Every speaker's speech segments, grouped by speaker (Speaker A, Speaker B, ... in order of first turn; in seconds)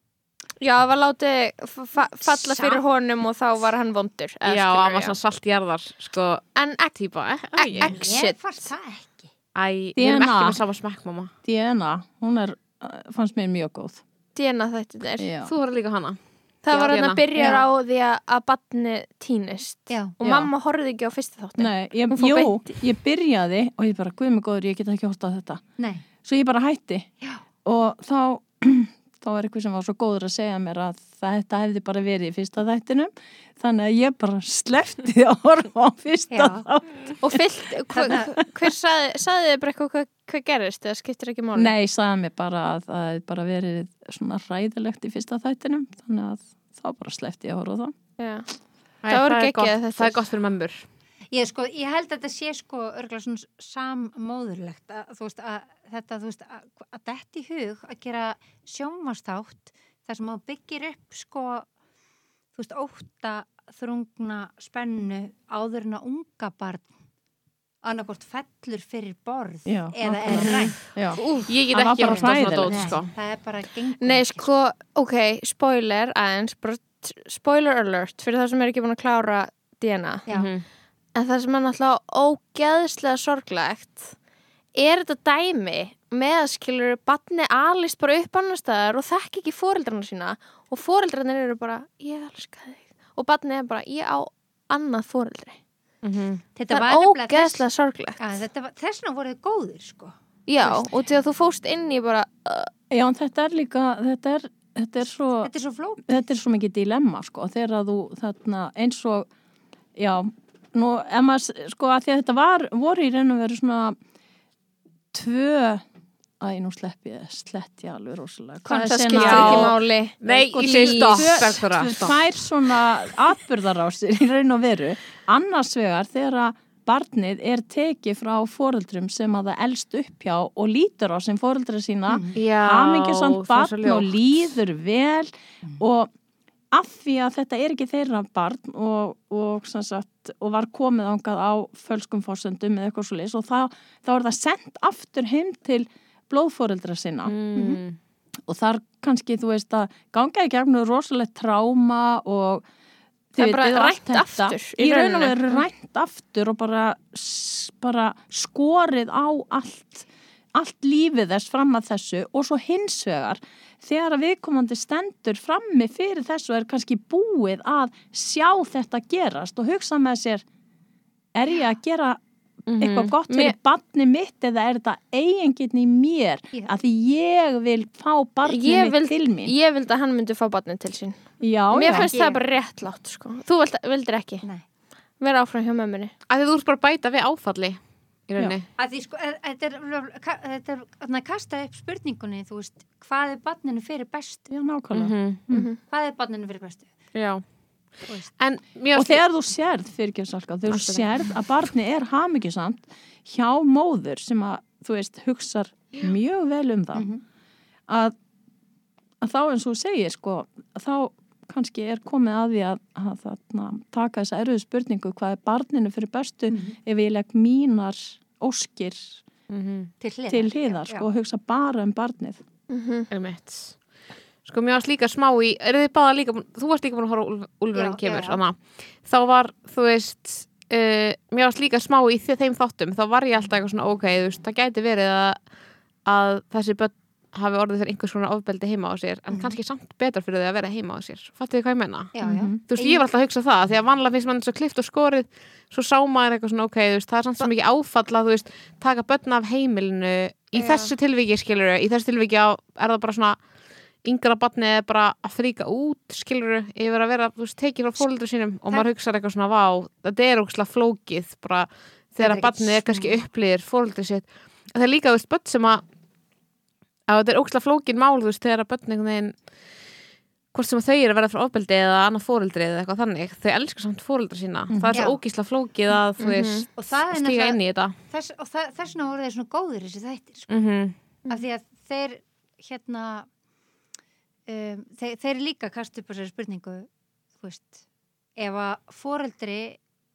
Speaker A: 0.6-5.2, 6.5-6.9, 7.5-8.7, 14.3-15.3, 16.6-22.8, 37.2-41.7, 48.2-48.5, 49.1-50.2, 71.2-71.5, 74.0-80.2, 81.1-84.1, 84.7-95.6, 96.7-98.2, 100.5-102.7, 118.7-121.5, 153.4-155.6, 173.3-173.5, 178.4-181.2, 181.7-184.4, 185.2-186.1, 195.5-195.8, 222.7-223.1, 276.2-276.7
Speaker B: 2.2-2.8, 7.8-9.3, 16.7-17.6, 19.9-20.1, 25.8-26.1, 36.3-36.6, 38.0-38.3, 51.3-61.7, 62.5-66.9, 67.8-71.4, 72.1-74.5, 96.5-97.6, 98.2-100.9, 105.4-106.1, 132.1-132.3, 181.9-182.4, 188.8-194.5, 195.8-196.9, 206.9-207.2, 216.5-216.8, 220.0-221.1, 227.7-228.4, 242.1-243.0, 262.2-263.1, 274.9-275.2, 276.8-280.5, 281.3-283.3, 284.5-287.8, 288.4-289.8
Speaker C: 4.4-8.0, 9.5-11.3, 15.4-16.2, 16.7-17.2, 49.0-50.8, 70.3-70.6, 71.4-73.1, 80.3-80.6, 96.0-96.4, 119.2-122.2, 132.3-134.5, 147.2-148.0, 172.7-173.1, 186.3-188.7, 194.9-195.4, 197.1-197.4, 198.0-199.2, 200.7-201.1, 219.5-219.9, 223.1-223.8, 224.4-235.4, 236.0-253.4, 254.0-265.8, 267.1-269.4, 270.5-277.9, 280.5-280.9
Speaker D: 9.9-10.6, 11.4-14.0, 15.2-15.5, 21.6-25.6, 26.2-27.1, 27.6-37.4, 37.9-38.3, 41.5-47.9, 69.7-71.2, 71.7-72.9, 102.9-105.5, 106.0-109.3, 110.0-114.0, 115.1-115.8, 116.4-119.8, 120.5-136.1, 136.7-147.3, 148.4-152.6, 153.3-170.4, 171.3-172.2, 172.8-179.5, 181.4-182.1, 194.5-195.7, 198.9-207.1, 207.9-208.1, 209.2-219.2, 220.3-222.4, 242.2-242.6, 274.7-275.0